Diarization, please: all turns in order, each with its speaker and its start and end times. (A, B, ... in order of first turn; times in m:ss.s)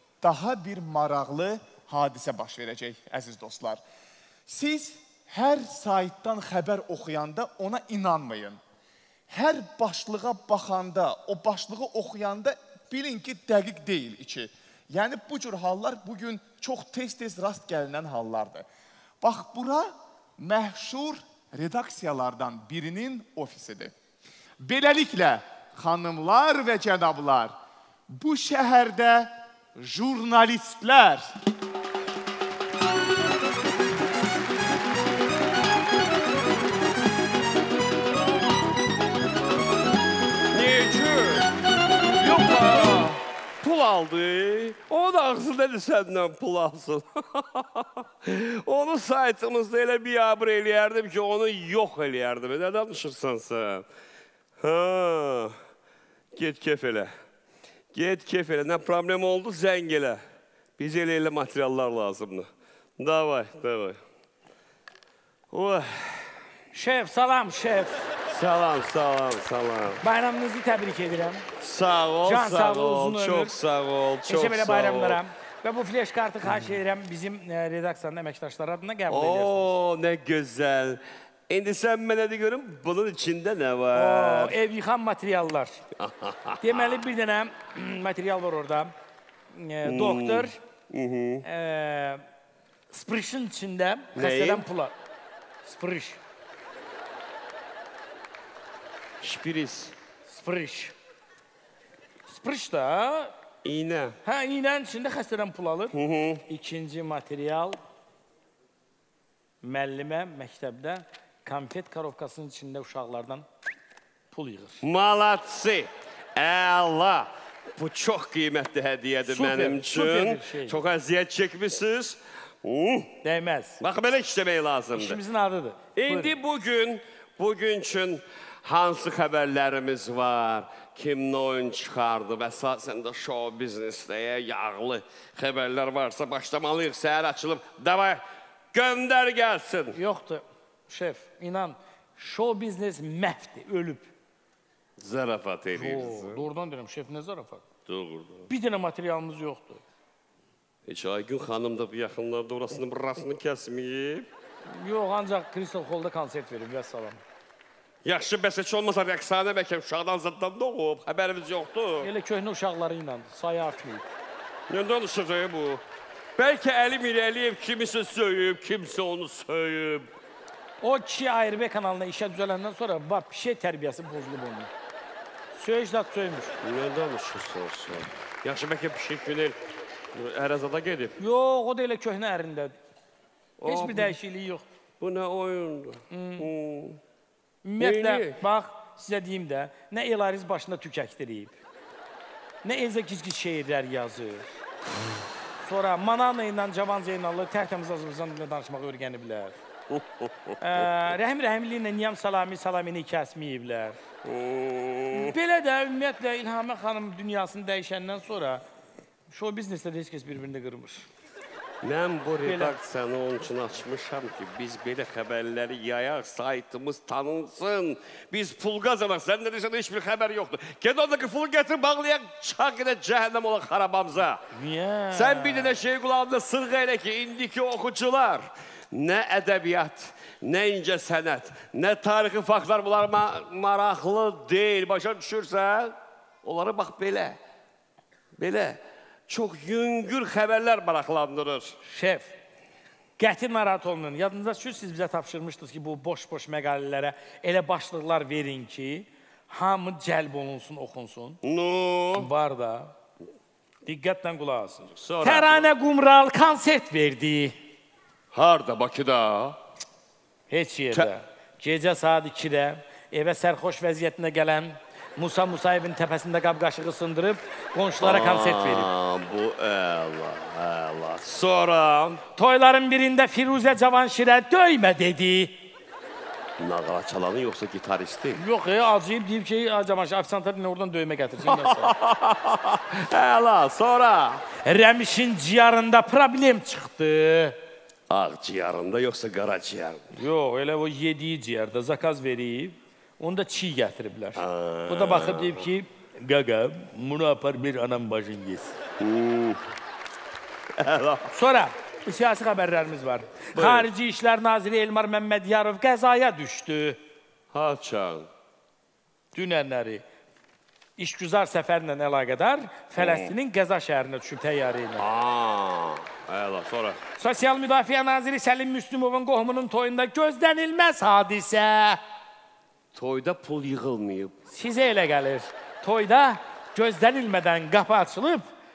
0:00.2-0:03.8 A
0:04.5-0:08.6 A
0:09.3-0:18.7 A
0:19.2-0:23.9 A
0:24.6-0:27.5 A
0:28.1-0:31.3 A
0:40.5-0:41.5 B
0:42.2-0:53.8 B
0:54.6-0:55.5 B
0:56.3-0:57.1 B
0:57.9-1:00.2 B
1:00.8-1:02.5 B
1:03.0-1:04.0 B
1:05.5-1:06.3 B
1:06.7-1:08.1 C
1:08.3-1:10.0 B
1:10.0-1:11.5 C
1:11.6-1:15.2 B
1:12.2-1:13.5 C
1:14.3-1:19.7 C
1:19.1-1:24.6 B
1:23.9-1:25.8 C
1:26.0-1:27.0 B
1:26.6-1:28.9 C
1:29.5-1:30.6 C
1:29.8-1:31.4 B
1:31.4-1:32.2 C
1:32.9-1:34.9 C
1:34.2-1:34.6 B
1:35.6-1:36.2 C
1:39.2-1:40.0 B
1:40.3-1:41.0 C
1:42.3-1:43.3 C
1:43.6-1:44.2 B
1:44.2-1:46.0 C
1:45.9-1:46.4 B
1:46.5-1:47.8 C
1:49.6-1:53.4 C
1:54.3-1:54.8 C
1:54.8-2:03.2 B
1:59.3-2:00.8 C
2:03.2-2:03.8 C
2:03.8-2:05.2 B
2:05.0-2:06.4 C
2:06.0-2:18.2 B
2:18.7-2:20.0 B
2:20.0-2:24.1 C
2:25.0-2:26.4 B
2:25.7-2:27.6 C
2:27.9-2:28.5 B
2:28.5-2:29.8 C
2:30.9-2:34.3 B
2:34.7-2:37.2 C
2:38.0-2:42.1 B
2:42.0-2:44.1 C
2:44.7-2:45.8 B
2:46.4-2:50.1 B
2:50.8-2:54.7 C
2:55.5-2:56.5 C
2:56.6-2:59.6 B
3:00.1-3:01.2 B
3:01.2-3:02.8 C
3:03.6-3:04.2 B
3:03.7-3:04.6 C
3:05.0-3:07.0 B
3:06.1-3:06.5 C
3:07.6-3:11.6 C
3:07.8-3:08.4 B
3:12.6-3:14.5 C
3:15.6-3:19.6 C
3:19.9-3:20.6 B
3:20.6-3:24.0 C
3:24.2-3:25.4 B
3:25.1-3:28.6 C
3:29.3-3:31.1 C
3:31.8-3:44.4 B
3:32.4-3:32.8 C
3:44.5-3:45.8 C
3:45.1-3:57.4 B
3:58.4-4:01.8 B
4:01.8-4:02.3 C
4:03.2-4:11.4 C
4:11.4-4:12.3 B
4:12.2-4:12.9 C
4:13.9-4:17.6 C
4:15.0-4:15.6 B
4:18.3-4:19.6 B
4:20.5-4:28.9 C
4:28.0-4:32.2 B
4:32.4-4:35.6 C
4:36.6-4:38.4 B
4:38.4-4:41.9 C
4:41.5-4:44.4 B
4:44.6-4:47.6 C
4:48.1-4:50.1 B
4:50.2-4:58.8 C
4:54.4-4:55.7 B
4:59.0-4:59.6 B
5:00.8-5:01.3 B
5:01.3-5:07.0 C
5:03.6-5:03.9 B
5:07.5-5:08.3 B
5:09.3-5:10.0 C
5:11.0-5:15.0 C
5:13.0-5:13.3 B
5:15.0-5:17.0 B
5:17.2-5:22.0 C
5:22.9-5:24.4 B
5:24.5-5:28.4 C